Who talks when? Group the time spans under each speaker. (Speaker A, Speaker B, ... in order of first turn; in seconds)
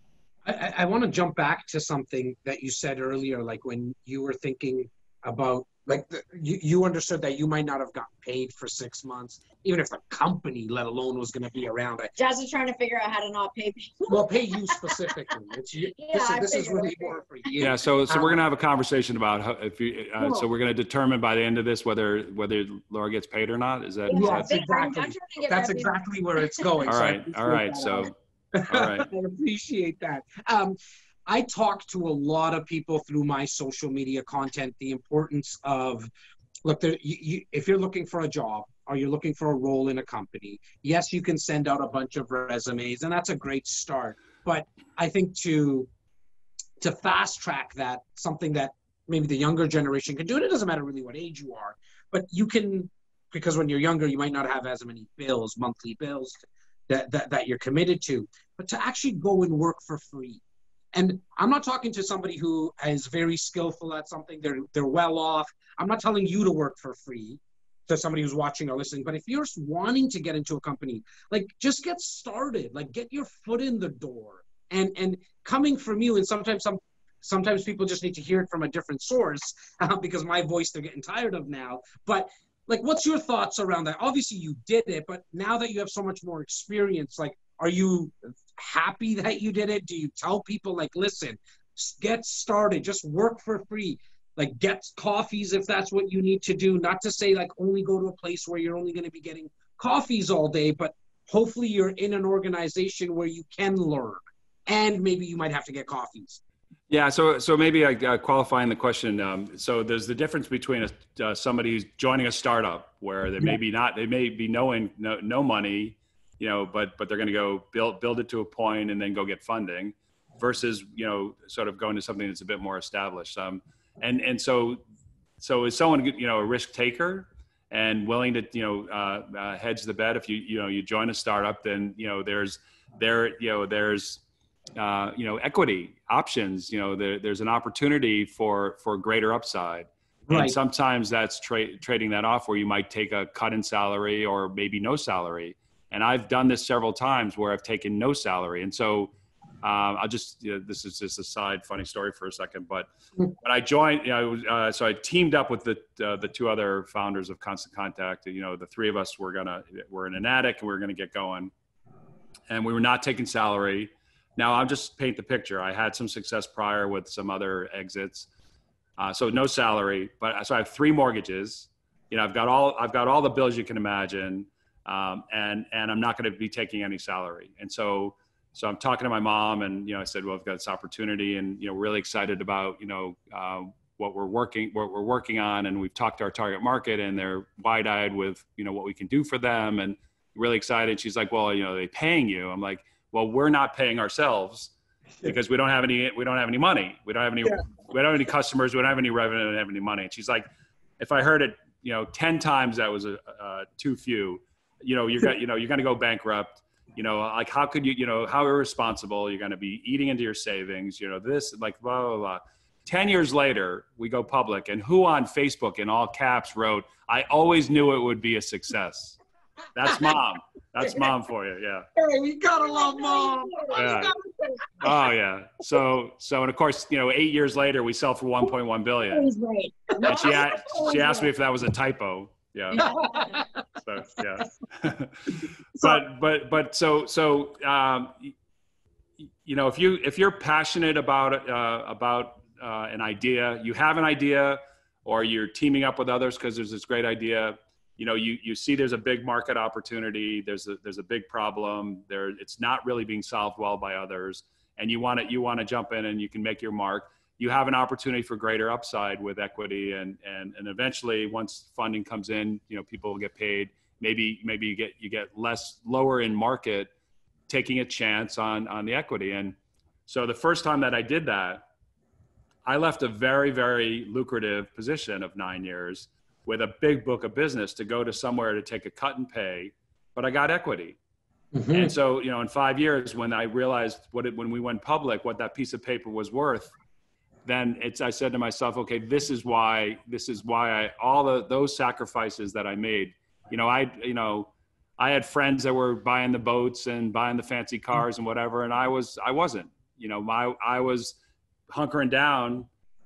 Speaker A: 0.4-12.1, 14.1-18.4, 24.1-36.1, 36.6-45.9, 46.8-56.4, 56.9-60.4, 60.9-106.4, 140.3-140.6, 221.9-224.1, 230.0-230.3, 232.8-233.4, 281.5-281.9
Speaker B: 12.2-15.1, 15.9-17.5, 20.2-20.4, 24.1-26.8, 222.6-224.7, 229.0-231.3, 232.7-233.4
Speaker C: 17.6-24.5, 26.9-28.1, 28.7-29.1, 106.9-124.8, 125.4-134.2, 134.8-161.5, 162.5-168.3, 169.0-200.4, 201.0-219.2, 219.7-221.8, 223.7-224.1, 224.8-229.2, 230.0-238.3, 239.4-266.9, 267.5-269.6, 270.1-271.6, 272.6-281.0, 281.7-286.7, 287.4-301.2, 301.7-302.7